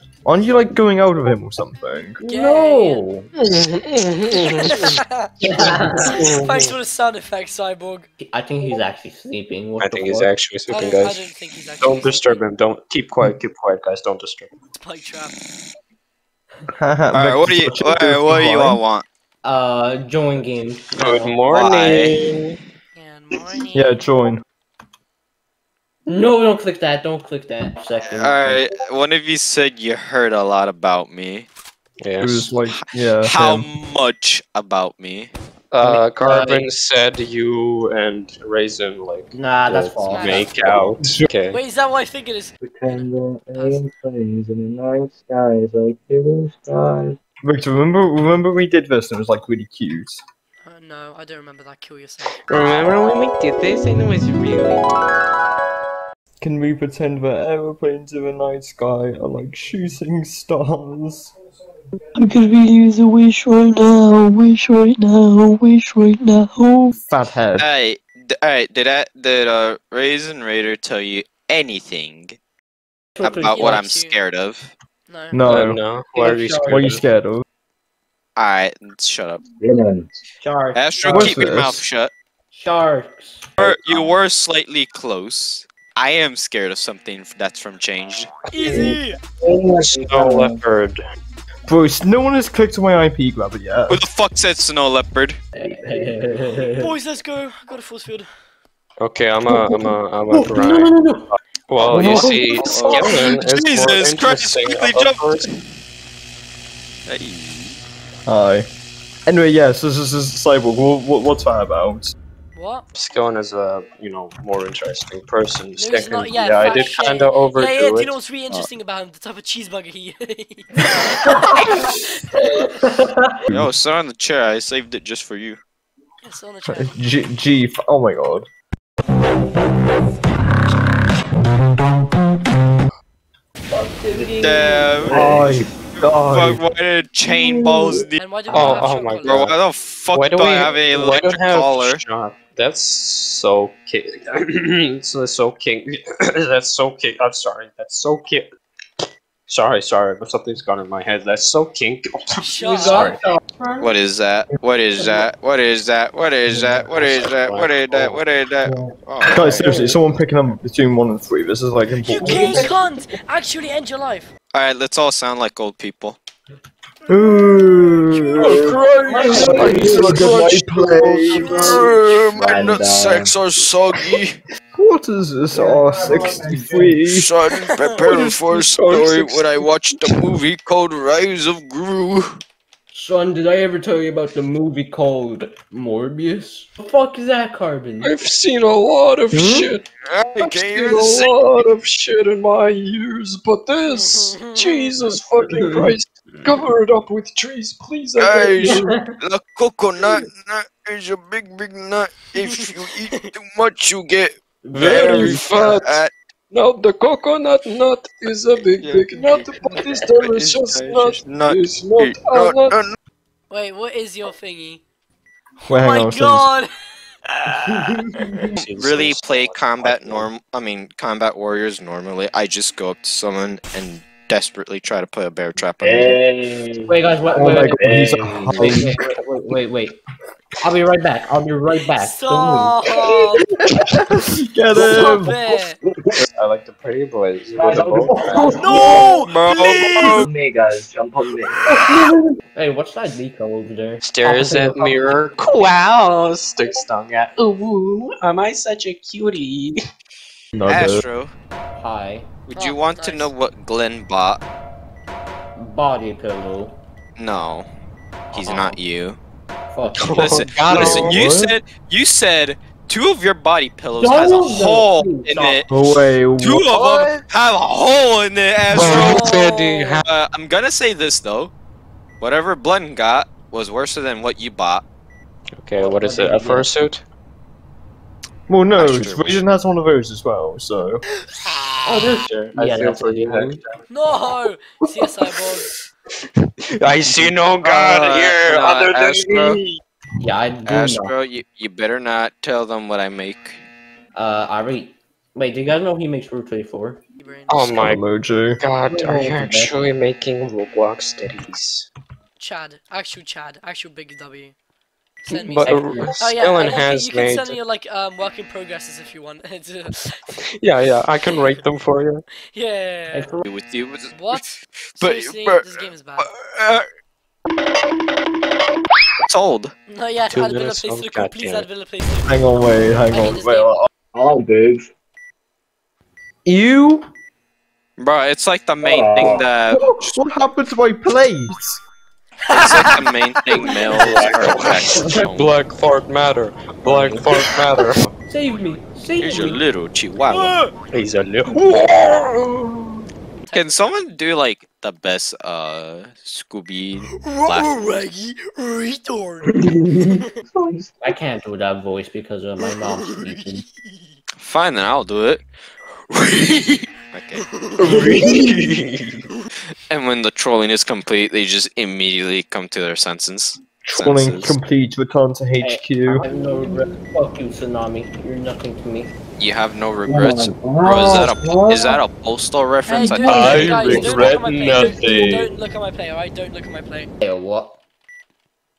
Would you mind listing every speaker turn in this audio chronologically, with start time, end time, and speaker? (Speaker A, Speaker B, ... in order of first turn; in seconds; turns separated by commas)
Speaker A: 0.2-2.2, Speaker B: 0.4-0.6, Speaker C: 2.2-3.3, Speaker B: 2.2-3.0, Speaker D: 3.4-4.8, Speaker B: 4.4-5.5, Speaker C: 5.4-6.1, Speaker D: 5.6-6.7, Speaker B: 6.0-8.1, Speaker C: 8.2-10.3, Speaker D: 9.8-11.2, Speaker B: 10.7-12.4, Speaker D: 11.8-14.5, Speaker B: 14.7-15.4, Speaker A: 16.7-18.8, Speaker E: 17.1-19.0, Speaker C: 19.4-21.4, Speaker D: 20.9-22.6, Speaker E: 21.5-22.2, Speaker B: 22.9-24.1, Speaker A: 23.7-24.4, Speaker C: 26.1-28.6, Speaker E: 28.0-31.5, Speaker D: 32.0-32.4, Speaker A: 32.2-33.7, Speaker E: 32.4-35.3, Speaker D: 35.7-41.6, Speaker C: 35.8-36.7, Speaker C: 39.3-40.5, Speaker B: 40.0-40.5, Speaker F: 40.7-41.3, Speaker B: 41.5-43.9, Speaker F: 42.6-47.2, Speaker A: 47.4-50.2, Speaker B: 50.6-52.3, Speaker D: 52.3-54.9, Speaker A: 56.4-61.3, Speaker B: 62.1-66.9, Speaker A: 66.9-67.7, Speaker E: 67.6-72.4, Speaker C: 73.2-73.8, Speaker E: 73.2-74.7, Speaker B: 73.4-74.2, Speaker B: 75.1-75.4, Speaker A: 75.3-75.8, Speaker D: 75.4-77.0, Speaker C: 76.1-77.0, Speaker A: 76.7-77.4, Speaker E: 78.3-79.4, Speaker F: 79.6-80.1, Speaker C: 80.4-81.4, Speaker E: 80.7-82.1, Speaker A: 81.0-81.8, Speaker C: 82.5-83.5, Speaker E: 83.6-88.4, Speaker F: 83.6-83.9, Speaker B: 88.5-89.2, Speaker D: 88.6-89.0, Speaker F: 89.4-90.6, Speaker D: 89.7-91.0, Speaker A: 91.7-94.0, Speaker E: 93.9-95.4, Speaker C: 95.5-96.9, Speaker B: 96.6-98.3, Speaker D: 99.0-101.0, Speaker C: 99.5-101.3, Speaker D: 101.7-105.5, Speaker A: 101.8-102.8, Speaker E: 102.0-105.5, Speaker E: 107.1-107.8, Speaker A: 108.2-108.7, Speaker A: 109.3-112.1, Speaker B: 112.5-112.8, Speaker D: 112.9-118.1, Speaker B: 115.8-122.8, Speaker C: 121.3-121.6, Speaker C: 122.4-123.3, Speaker E: 123.5-125.6, Speaker B: 126.2-126.9, Speaker A: 126.7-128.5, Speaker C: 133.7-135.5, Speaker E: 134.4-135.2, Speaker F: 135.1-135.6, Speaker A: 135.1-136.6, Speaker E: 135.9-142.0, Speaker B: 138.2-139.5, Speaker D: 138.5-139.5, Speaker D: 140.1-148.5, Speaker D: 149.5-153.2, Speaker B: 152.4-153.2, Speaker C: 152.8-153.8, Speaker E: 153.8-159.7, Speaker D: 156.9-158.2, Speaker A: 159.3-162.7, Speaker C: 159.5-160.0, Speaker B: 161.9-164.3, Speaker C: 162.2-162.7, Speaker F: 162.3-162.7, Speaker E: 164.5-166.2, Speaker A: 167.1-168.7, Speaker B: 167.2-167.9, Speaker D: 168.1-171.8, Speaker F: 168.3-173.3, Speaker C: 169.1-170.3, Speaker A: 169.3-171.6, Speaker B: 171.3-171.7, Speaker E: 171.6-174.4, Speaker A: 174.8-177.3, Speaker F: 175.5-177.0, Speaker C: 176.0-176.5, Speaker E: 177.0-182.4, Speaker B: 177.6-178.1, Speaker D: 178.1-180.2, Speaker C: 182.9-188.2, Speaker D: 188.0-189.8, Speaker C: 189.3-189.7, Speaker E: 190.1-191.3, Speaker D: 190.4-198.9, Speaker B: 193.9-195.0, Speaker C: 195.5-195.9, Speaker E: 198.2-206.1, Speaker C: 198.6-199.1, Speaker B: 202.4-203.3, Speaker C: 204.7-205.7, Speaker D: 204.7-206.0, Speaker D: 206.5-212.8, Speaker E: 208.8-212.9, Speaker B: 213.5-214.8, Speaker B: 215.6-216.7, Speaker A: 215.7-216.5, Speaker B: 217.3-217.7, Speaker C: 217.8-218.3, Speaker E: 218.5-226.2, Speaker D: 218.6-220.3, Speaker F: 225.8-228.9, Speaker C: 226.8-230.0, Speaker A: 227.3-228.9, Speaker C: 230.6-232.7, Speaker B: 232.0-233.4, Speaker A: 234.0-235.4, Speaker B: 234.8-235.8, Speaker D: 236.2-238.4, Speaker C: 237.6-239.0, Speaker F: 238.0-239.1, Speaker B: 238.4-240.2, Speaker E: 238.7-240.3, Speaker F: 240.0-241.6, Speaker C: 241.7-245.2, Speaker D: 244.0-249.8, Speaker A: 250.5-251.0, Speaker E: 250.7-251.3, Speaker C: 251.7-252.3, Speaker E: 252.5-254.4, Speaker B: 252.5-253.3, Speaker C: 255.6-256.8, Speaker E: 257.2-257.7, Speaker E: 258.3-259.2, Speaker D: 258.3-258.8, Speaker C: 259.7-260.4, Speaker D: 259.9-261.3, Speaker E: 259.9-269.3, Speaker A: 260.7-261.5, Speaker C: 264.0-265.6, Speaker A: 265.7-267.1, Speaker D: 268.7-270.1, Speaker B: 268.9-270.0, Speaker E: 270.0-271.5, Speaker E: 272.2-274.8, Speaker D: 275.6-277.0, Speaker C: 275.8-276.7, Speaker A: 278.5-281.0, Speaker E: 278.7-279.4, Speaker C: 281.8-283.6, Speaker D: 282.0-283.6, Speaker B: 283.9-285.7, Speaker D: 286.7-289.8, Speaker E: 287.6-289.6, Speaker C: 290.2-291.1, Speaker E: 290.6-293.6, Speaker C: 294.1-297.0, Speaker B: 297.2-297.9, Speaker D: 297.5-298.0, Speaker A: 297.7-298.6, Speaker D: 298.6-301.9, Speaker C: 298.9-299.7, Speaker B: 302.4-304.5, Speaker B: 305.2-310.2, Speaker D: 305.3-307.6, Speaker C: 305.6-306.1, Speaker D: 310.3-312.2, Speaker B: 311.2-311.6, Speaker B: 312.5-313.3, Speaker C: 313.1-313.5, Speaker E: 313.4-314.4, Speaker B: 314.1-316.3, Speaker E: 314.9-316.8, Speaker E: 319.2-319.7, Speaker B: 319.9-323.8, Speaker D: 320.3-321.7, Speaker A: 322.2-323.9, Speaker F: 324.1-324.9, Speaker A: 326.4-327.1, Speaker E: 328.0-330.2, Speaker F: 328.8-329.5, Speaker A: 329.7-331.8, Speaker B: 332.4-333.1, Speaker E: 332.5-335.6, Speaker D: 333.5-338.1, Speaker B: 333.6-334.0, Speaker C: 334.9-335.3, Speaker C: 336.9-337.3, Speaker C: 338.3-339.6, Speaker E: 339.2-340.6, Speaker B: 340.3-340.7, Speaker D: 340.9-342.8, Speaker B: 343.4-343.9, Speaker E: 343.5-347.9, Speaker B: 347.1-350.4, Speaker C: 349.7-350.1, Speaker F: 350.5-351.0, Speaker C: 351.0-353.6, Speaker B: 352.6-354.1, Speaker E: 354.4-355.4, Speaker E: 356.2-357.4, Speaker B: 357.3-357.9, Speaker C: 357.9-358.5, Speaker D: 358.0-359.0, Speaker E: 359.8-364.6, Speaker A: 363.8-366.2, Speaker C: 365.6-369.1, Speaker F: 366.2-366.9, Speaker E: 369.4-374.3, Speaker F: 370.1-372.0, Speaker B: 372.8-377.1, Speaker D: 373.2-375.4, Speaker F: 373.7-374.2, Speaker C: 377.2-377.8